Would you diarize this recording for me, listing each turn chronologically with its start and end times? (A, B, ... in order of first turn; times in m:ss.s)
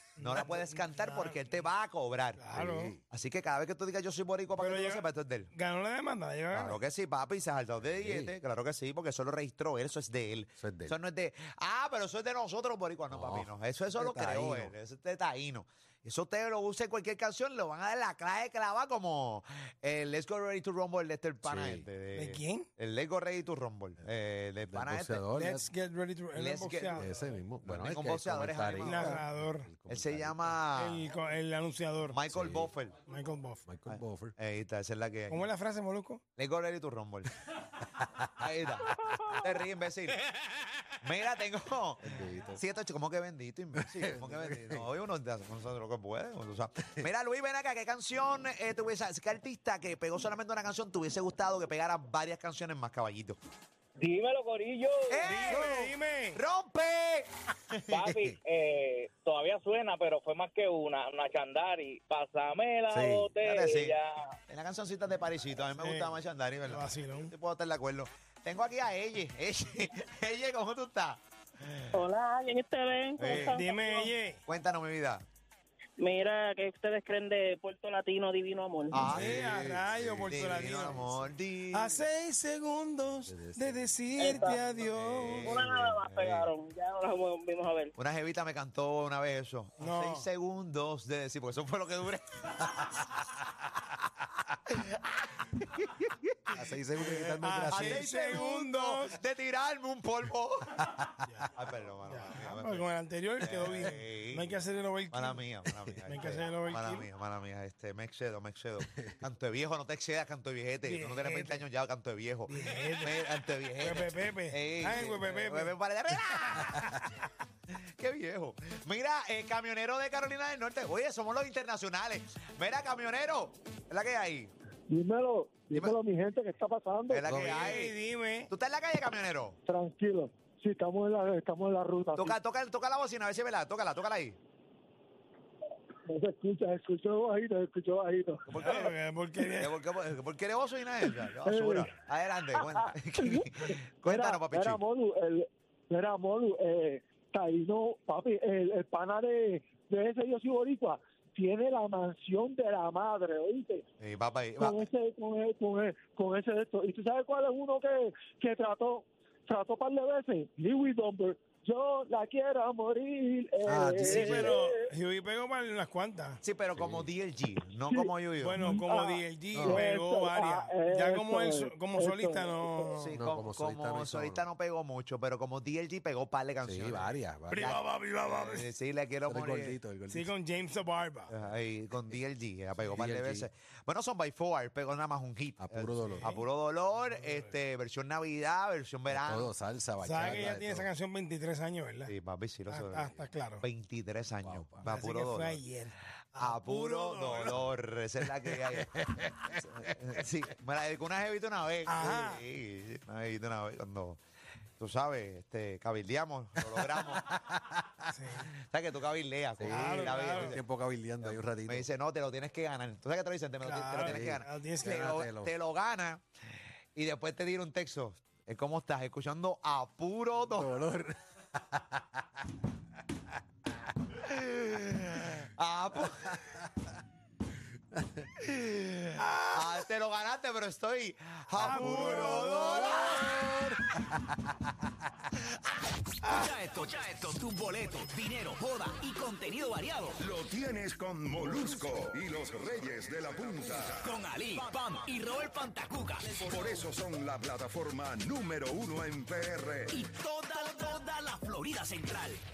0:00.2-0:01.7 A
0:00.2-0:02.4 B
0:02.4-0:02.9 A
0:02.5-0:03.0 C
0:03.1-0:05.5 B
0:04.6-0:06.8 A
0:06.5-0:25.2 B
0:07.8-0:08.4 C
0:10.6-0:11.0 C
0:13.1-0:14.7 C
0:21.4-0:21.9 C
0:22.1-0:22.7 A
0:24.7-0:25.6 C
0:25.3-0:27.1 A
0:26.4-0:27.1 B
0:26.9-0:30.6 C
0:27.6-0:29.2 B
0:28.8-0:29.7 A
0:29.9-0:31.0 B
0:30.8-0:32.2 A
0:32.1-0:33.0 B
0:32.3-0:32.7 C
0:33.0-0:33.6 A
0:33.7-0:34.3 C
0:33.9-0:35.5 B
0:35.3-0:36.2 A
0:36.4-0:37.3 B
0:38.4-0:40.2 B
0:41.0-0:53.4 B
0:42.0-0:42.6 C
0:43.7-0:44.9 C
0:54.0-0:55.6 D
0:55.1-0:58.4 B
0:55.2-0:56.4 A
0:57.9-1:04.3 D
1:02.9-1:03.4 C
1:03.4-1:04.0 B
1:04.5-1:11.2 B
1:05.7-1:07.3 A
1:11.9-1:14.0 E
1:13.2-1:13.6 B
1:13.2-1:14.4 A
1:14.5-1:15.2 B
1:16.0-1:19.1 E
1:18.9-1:19.5 B
1:19.0-1:21.2 C
1:19.0-1:25.6 A
1:20.3-1:21.9 B
1:23.3-1:23.9 C
1:24.2-1:24.6 E
1:24.8-1:26.5 B
1:25.5-1:27.9 E
1:28.0-1:32.8 B
1:29.8-1:30.3 A
1:34.7-1:36.5 B
1:36.5-1:38.1 C
1:37.0-1:39.2 A
1:37.7-1:40.7 B
1:40.8-1:41.3 C
1:41.5-1:42.8 B
1:42.0-1:45.5 A
1:43.4-1:44.5 B
1:45.1-1:56.8 B
1:46.0-1:47.1 A
1:48.8-1:49.1 C
1:50.8-1:51.7 A
1:52.5-1:53.2 A
1:53.8-1:55.8 A
1:56.6-1:57.0 A
1:57.8-2:04.5 B
2:04.9-2:07.4 F
2:07.1-2:08.0 B
2:07.2-2:07.8 C
2:07.3-2:08.5 A
2:08.5-2:09.6 B
2:09.6-2:12.4 F
2:12.2-2:14.4 B
2:16.1-2:18.5 F
2:18.5-2:18.9 B
2:18.6-2:19.8 A
2:19.6-2:24.8 B
2:21.0-2:33.8 F
2:34.0-2:34.8 B
2:34.6-2:44.8 F
2:43.6-2:44.6 C
2:44.0-2:46.4 A
2:46.4-2:48.7 B
2:46.7-2:47.1 C
2:47.8-2:52.8 F
2:48.4-2:53.2 A
2:49.5-2:49.9 C
2:53.0-2:59.8 B
2:53.1-2:54.4 C
2:56.6-2:57.8 C
2:57.5-2:58.7 A
2:59.2-3:00.3 C
3:00.1-3:01.3 A
3:01.3-3:09.5 B
3:02.9-3:03.5 C
3:05.6-3:06.3 C
3:06.0-3:06.4 A
3:07.1-3:07.5 A
3:09.1-3:10.9 C
3:10.0-3:12.1 A
3:12.1-3:13.1 B
3:12.7-3:13.6 A
3:13.6-3:15.6 B
3:14.4-3:14.9 C
3:14.8-3:17.7 A
3:16.4-3:24.2 B
3:18.8-3:19.5 C
3:21.8-3:22.4 A
3:24.8-3:27.2 B
3:26.7-3:27.8 C
3:28.1-3:28.5 A
3:28.7-3:30.6 B
3:29.6-3:31.9 C
3:29.7-3:30.6 A
3:31.2-3:36.2 B
3:33.6-3:35.0 A
3:34.0-3:35.5 C
3:37.0-3:40.7 B
3:40.4-3:42.0 C
3:44.2-3:46.6 B
3:48.0-3:48.2 C
3:48.4-3:53.7 B
3:51.5-3:53.1 A
3:53.0-3:53.6 C
3:56.2-3:56.6 B
3:56.4-3:56.9 G
3:56.6-3:59.9 H
3:57.4-4:12.4 G
4:04.1-4:06.0 H
4:10.5-4:12.2 H